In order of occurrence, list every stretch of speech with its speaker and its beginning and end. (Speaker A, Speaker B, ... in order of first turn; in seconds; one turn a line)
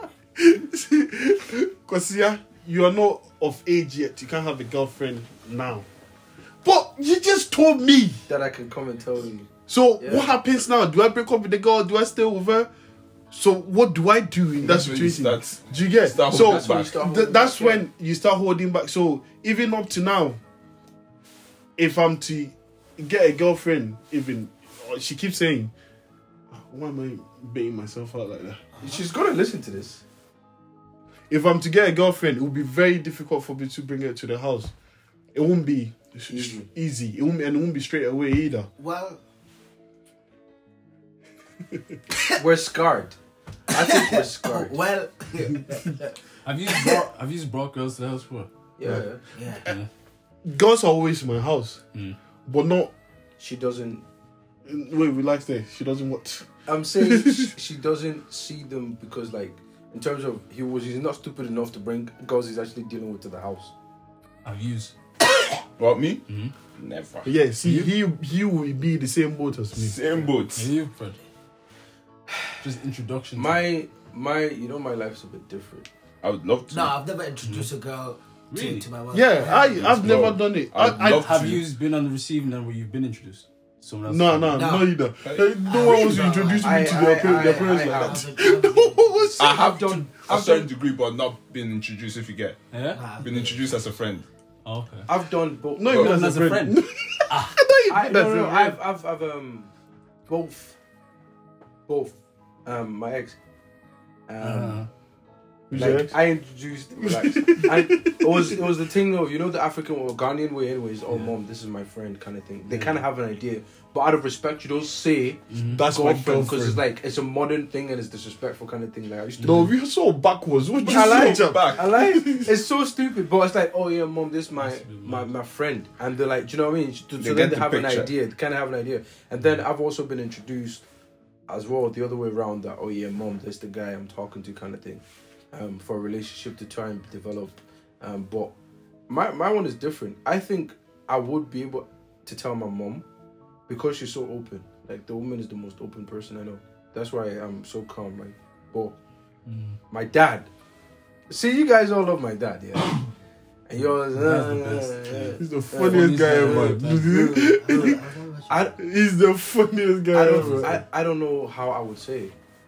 Speaker A: 0.4-5.8
Speaker A: 6.6-8.2
Speaker B: 8.3-10.3
Speaker A: 9.7-12.7
Speaker A: 13.3-20.4
Speaker C: 14.6-17.0
Speaker B: 16.3-17.8
Speaker A: 21.8-25.7
Speaker A: 26.5-28.6
Speaker B: 28.8-30.0
Speaker A: 31.3-34.7
Speaker A: 35.3-38.7
Speaker B: 36.3-36.7
Speaker D: 38.8-39.2
Speaker B: 42.4-43.2
Speaker B: 43.7-44.8
Speaker D: 43.7-46.0
Speaker E: 46.5-48.5
Speaker B: 48.8-49.2
Speaker D: 49.3-49.7
Speaker A: 50.5-51.8
Speaker A: 52.5-52.9
Speaker B: 53.4-54.0
Speaker A: 54.7-57.5
Speaker B: 56.7-63.7
Speaker E: 64.5-64.9
Speaker C: 65.8-66.2
Speaker E: 66.3-66.5
Speaker C: 66.8-67.3
Speaker A: 67.2-70.0
Speaker E: 67.6-67.9
Speaker C: 69.7-70.7
Speaker E: 70.6-71.2
Speaker E: 72.6-73.7
Speaker B: 73.4-75.9
Speaker C: 76.2-77.0
Speaker D: 76.7-80.2
Speaker E: 77.4-77.7
Speaker E: 78.5-78.9
Speaker A: 79.1-81.5
Speaker C: 79.6-81.6
Speaker E: 81.1-84.8
Speaker A: 84.1-89.5
Speaker D: 84.5-84.9
Speaker C: 85.2-86.4
Speaker D: 85.6-89.6
Speaker B: 86.6-88.3
Speaker C: 89.4-92.6
Speaker B: 89.5-90.7
Speaker E: 92.7-93.0
Speaker D: 92.9-93.7
Speaker C: 93.2-94.3
Speaker E: 94.7-95.1
Speaker B: 95.1-96.2
Speaker A: 95.8-98.8
Speaker E: 95.9-97.6
Speaker B: 97.9-99.7
Speaker B: 100.3-100.8
Speaker B: 101.9-103.4
Speaker B: 104.3-104.8
Speaker E: 104.4-104.9
Speaker A: 105.7-106.1
Speaker B: 105.7-119.7
Speaker A: 107.0-108.6
Speaker E: 112.7-113.0
Speaker E: 115.5-115.8
Speaker A: 115.7-116.8
Speaker E: 119.4-119.7
Speaker A: 119.4-122.5
Speaker C: 120.8-122.4
Speaker B: 120.8-130.8
Speaker E: 124.6-125.3
Speaker C: 127.2-128.1
Speaker B: 131.5-138.5
Speaker B: 139.1-143.0
Speaker B: 143.7-149.0
Speaker E: 149.5-149.8
Speaker B: 149.9-150.5
Speaker B: 151.3-153.1
Speaker B: 153.7-156.8
Speaker E: 154.1-157.1
Speaker A: 155.4-158.0
Speaker D: 157.0-158.7
Speaker B: 157.7-158.8
Speaker A: 158.8-160.8
Speaker B: 160.1-162.3
Speaker E: 160.3-160.8